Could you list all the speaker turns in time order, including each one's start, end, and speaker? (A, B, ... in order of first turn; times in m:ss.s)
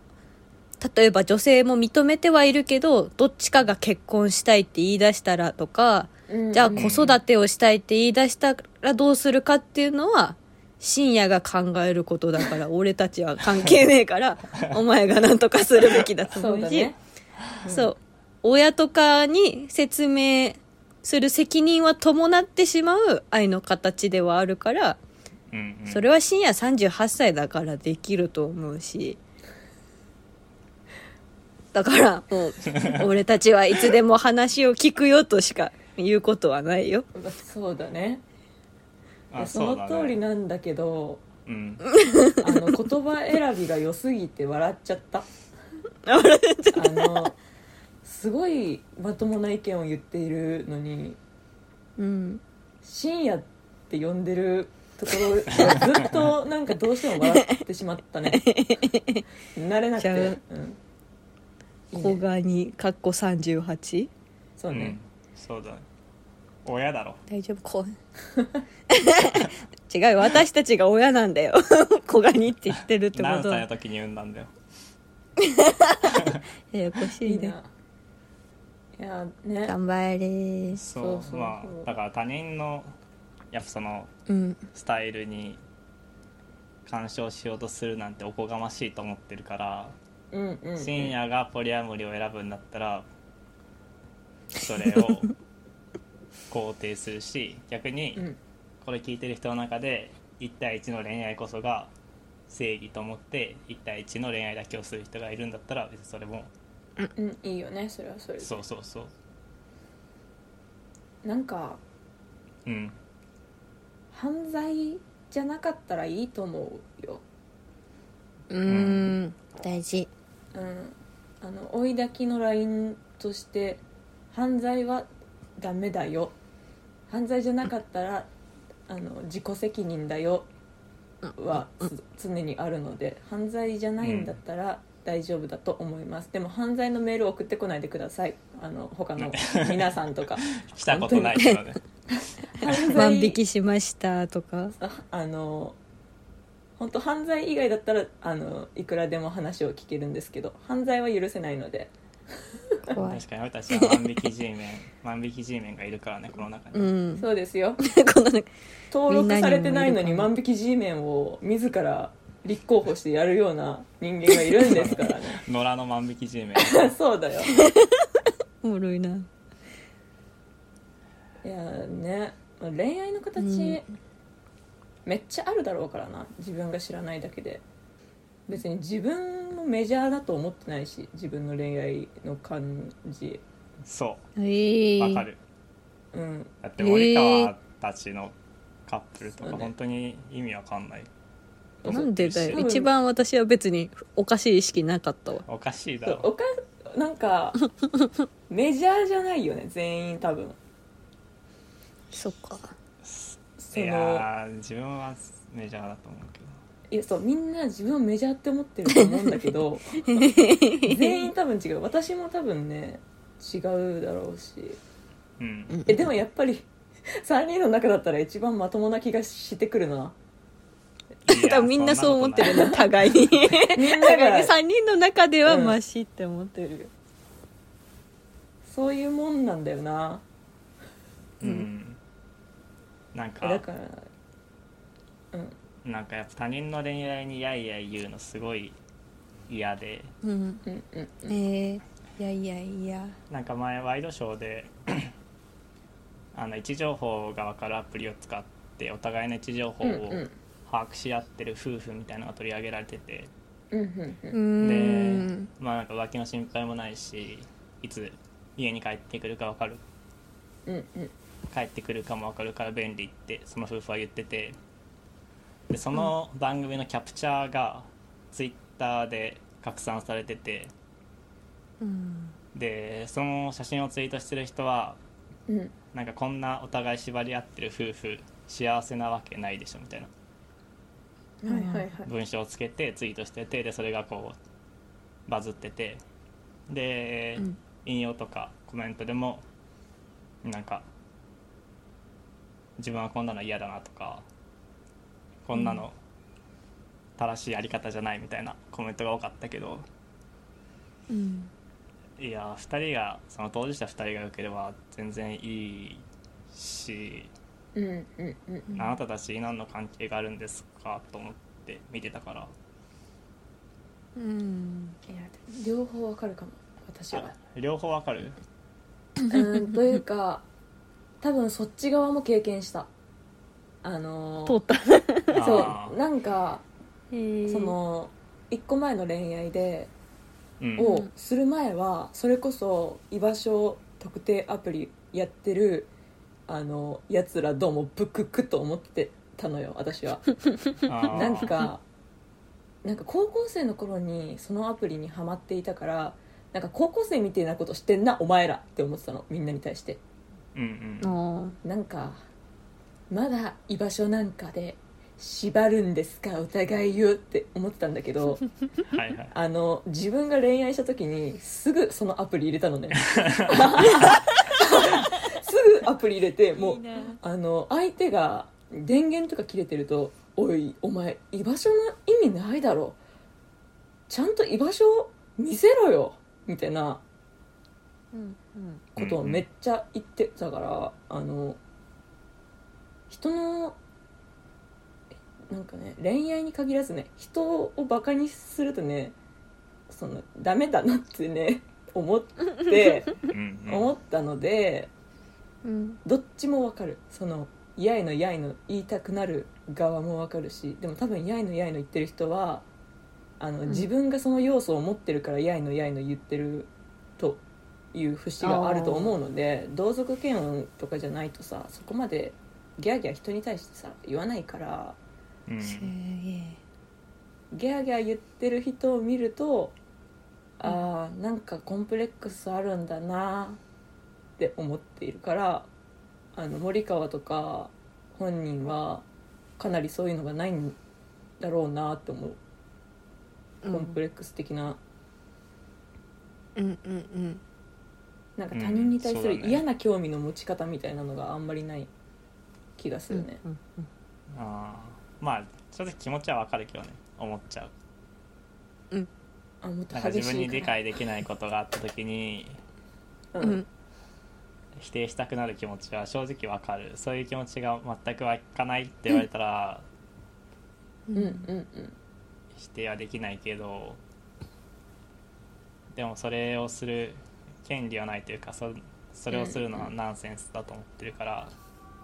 0:00.8-0:16.9 A
0:06.3-0:07.0 B
0:06.7-0:07.2 C
0:16.3-0:17.0 B
0:17.6-0:17.9 B
0:17.6-0:25.0 A
0:25.5-0:26.1 C
0:25.9-0:29.2 A
0:31.7-0:37.0 A
0:37.1-0:38.2 B
0:39.3-0:40.2 C
0:39.4-0:41.2 B
0:41.4-0:41.8 C
0:41.8-0:42.6 A
0:42.4-0:45.3 B
0:46.0-0:47.3 A
0:46.7-0:47.4 B
0:48.0-0:51.2 B
0:52.0-0:52.4 A
0:52.8-0:58.5 B
0:55.5-0:56.3 C
0:57.2-0:57.6 A
0:58.3-0:59.2 A
0:59.5-1:00.8 B
1:00.0-1:00.4 A
1:01.9-1:02.2 B
1:01.9-1:04.1 A
1:04.6-1:05.0 B
1:04.7-1:05.8 C
1:06.6-1:07.2 C
1:07.3-1:08.0 A
1:08.3-1:08.6 B
1:08.9-1:13.6 A
1:13.1-1:14.5 C
1:15.4-1:17.5 A
1:16.1-1:16.4 C
1:17.2-1:17.6 B
1:19.0-1:19.7 B
1:19.6-1:20.8 A
1:20.7-1:22.9 C
1:20.9-1:21.9 B
1:23.5-1:24.1 C
1:24.3-1:24.7 A
1:24.7-1:25.6 C
1:26.8-1:29.9 C
1:30.3-1:31.1 B
1:30.8-1:33.0 C
1:34.5-1:35.3 C
1:36.5-1:38.2 C
1:38.8-1:41.9 C
1:42.5-1:46.5 C
1:47.1-1:48.6 B
1:48.4-1:49.1 C
1:51.2-1:51.8 B
1:52.6-1:53.0 C
1:54.1-1:57.2 B
1:58.5-2:00.1 A
1:58.7-1:59.1 C
2:00.5-2:05.1 B
2:05.6-2:06.3 B
2:07.1-2:08.3 B
2:08.9-2:10.5 B
2:11.2-2:11.8 A
2:11.4-2:21.4 B
2:14.0-2:14.4 C
2:19.2-2:21.8 C
2:22.4-2:23.4 B
2:22.9-2:24.7 A
2:24.8-2:25.8 B
2:26.8-2:31.9 B
2:32.8-2:34.0 A
2:33.0-2:36.9 C
2:36.7-2:37.2 A
2:37.2-2:37.8 B
2:37.8-2:38.5 A
2:38.9-2:45.4 B
2:39.1-2:40.3 A
2:44.6-2:46.9 C
2:46.6-2:47.6 B
2:47.5-2:48.1 A
2:48.6-2:49.3 A
2:51.4-2:53.8 B
2:53.4-2:53.8 A
2:55.0-2:57.6 B
2:58.5-3:03.4 B
3:03.8-3:04.2 C
3:04.4-3:05.2 A
3:05.0-3:05.4 C
3:06.1-3:06.5 B
3:06.6-3:08.3 C
3:06.8-3:07.5 A
3:08.9-3:11.1 C
3:09.4-3:09.7 B
3:11.8-3:12.6 C
3:11.8-3:12.9 B
3:11.9-3:15.4 A
3:15.4-3:16.3 C
3:16.0-3:17.6 B
3:18.5-3:20.6 B
3:22.1-3:22.8 A
3:23.0-3:26.6 C
3:23.7-3:24.2 B
3:26.9-3:30.3 B
3:30.0-3:31.2 A
3:30.8-3:34.8 B
3:35.4-3:35.8 C
3:35.9-3:40.1 B
3:41.2-3:42.8 C
3:41.3-3:46.9 A
3:42.4-3:42.8 B
3:43.7-3:44.5 B
3:45.4-3:45.8 B
3:48.6-3:50.2 B
3:51.4-3:52.0 C
3:51.4-3:51.7 A
3:53.1-3:53.6 C
3:53.4-3:54.1 B
3:55.8-3:58.8 C
3:59.5-4:00.1 C
4:00.2-4:00.6 A
4:00.6-4:01.4 B
4:01.3-4:03.2 A
4:03.3-4:05.1 C
4:06.3-4:13.3 C
4:09.8-4:10.3 B
4:13.7-4:14.4 B
4:14.3-4:15.5 A
4:14.6-4:19.8 C
4:20.6-4:21.1 B
4:21.5-4:24.6 C
4:25.7-4:30.7 C
4:31.8-4:32.4 A
4:32.5-4:35.0 C
4:35.5-4:35.7 B
4:35.9-4:40.1 C
4:41.4-4:42.1 B
4:41.5-4:41.9 A
4:42.0-4:44.4 C
4:45.3-4:46.0 C
4:46.7-4:49.4 C
4:50.4-4:50.8 C
4:52.8-4:54.2 C
4:55.4-4:56.0 C
4:55.5-4:55.8 A
4:57.2-4:59.8 C
5:01.1-5:01.5 A
5:02.2-5:07.3 C
5:07.7-5:08.7 B
5:08.7-5:12.5 C
5:14.2-5:15.0 A
5:15.1-5:17.3 B
5:17.1-5:18.4 C
5:19.3-5:20.4 B
5:21.2-5:22.9 B
5:23.8-5:24.6 B
5:24.4-5:25.4 A
5:25.3-5:26.0 C
5:25.4-5:26.6 B
5:27.1-5:27.8 A
5:27.5-5:29.9 B
5:30.6-5:30.9 C
5:30.8-5:35.9 B
5:30.8-5:31.1 A
5:36.5-5:40.4 B
5:40.8-5:41.6 C
5:41.1-5:41.8 B
5:42.8-5:50.0 B
5:50.5-5:51.2 C
5:51.0-5:51.6 A
5:51.6-5:52.2 B
5:53.1-5:58.4 B
5:58.9-5:59.3 C
5:59.3-6:13.0 B
6:03.1-6:04.1 C
6:06.6-6:07.2 A
6:14.1-6:17.0 B
6:18.1-6:18.8 A
6:18.9-6:21.6 B
6:19.0-6:19.4 C
6:23.1-6:23.8 B
6:25.5-6:29.2 B
6:29.9-6:34.9 B
6:33.3-6:33.9 C
6:35.6-6:36.0 A
6:36.0-6:42.6 B
6:43.4-6:47.4 B
6:47.9-6:55.0 B
6:48.4-6:49.2 A
6:55.5-6:55.9 C
6:55.6-6:56.6 A
6:57.5-6:59.7 B
7:00.6-7:03.6 B
7:04.4-7:05.7 B
7:06.3-7:09.0 B
7:09.6-7:10.8 B
7:11.4-7:12.4 B
7:13.6-7:14.0 A
7:13.7-7:14.8 B
7:16.6-7:17.4 A
7:18.4-7:21.9 B
7:18.5-7:19.6 C
7:22.8-7:23.4 B
7:23.1-7:23.9 A
7:24.3-7:27.7 C
7:29.6-7:30.7 B
7:29.9-7:32.6 C
7:33.3-7:33.6 B
7:33.4-7:33.7 A
7:34.8-7:39.8 C
7:41.1-7:41.5 A
7:41.1-7:41.9 B
7:42.5-7:44.0 C
7:45.9-7:51.5 C
7:49.3-7:49.9 B